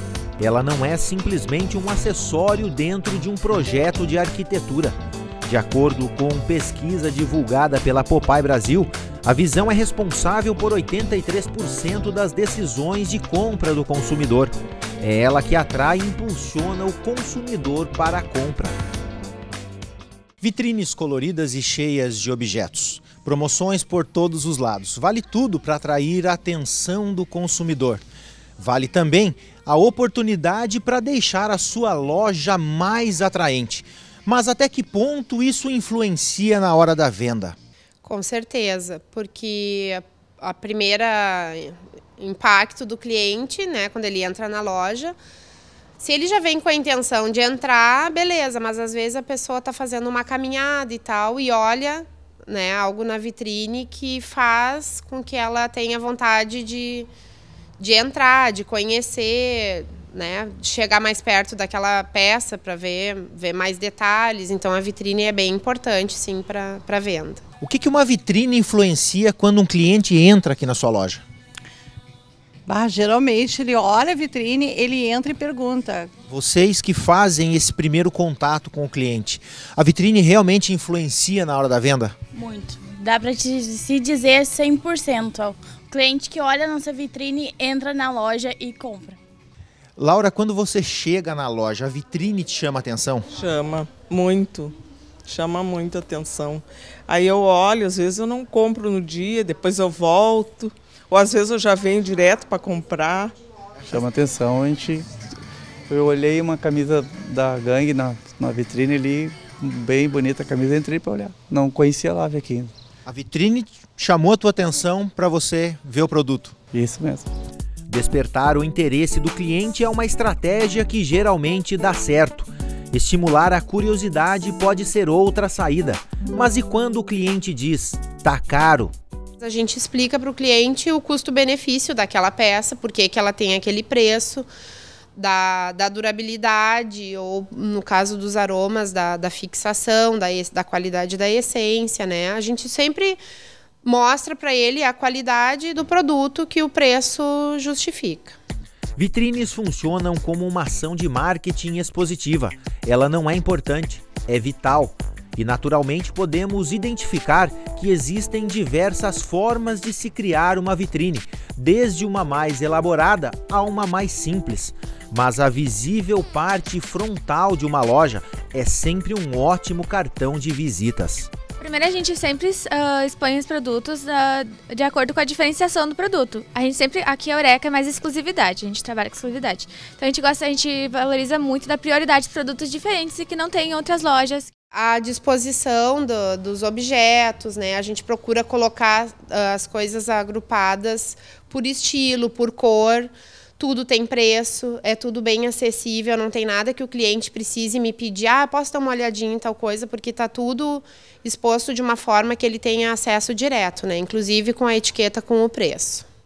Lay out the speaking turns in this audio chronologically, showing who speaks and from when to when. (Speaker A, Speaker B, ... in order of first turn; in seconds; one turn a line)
Speaker A: 0.4-18.8
Speaker A: 20.4-28.0
Speaker A: 28.6-37.6
Speaker B: 38.0-45.1
Speaker B: 46.0-57.1
Speaker B: 57.8-67.4
Speaker A: 67.6-71.2
Speaker C: 72.7-76.1
Speaker A: 76.3-82.1
Speaker D: 82.3-89.2
Speaker A: 90.0-93.3
Speaker E: 93.3-94.8
Speaker E: 95.3-103.4
Speaker F: 103.8-105.1
Speaker F: 105.9-112.7
Speaker A: 113.1-116.5
Speaker F: 116.7-117.3
Speaker A: 117.9-128.9
Speaker B: 129.4-134.5
Speaker B: 135.2-143.2
Speaker B: 143.8-148.4
Speaker A: 149.0-171.3
Speaker G: 171.6-184.5
Speaker B: 184.7-206.1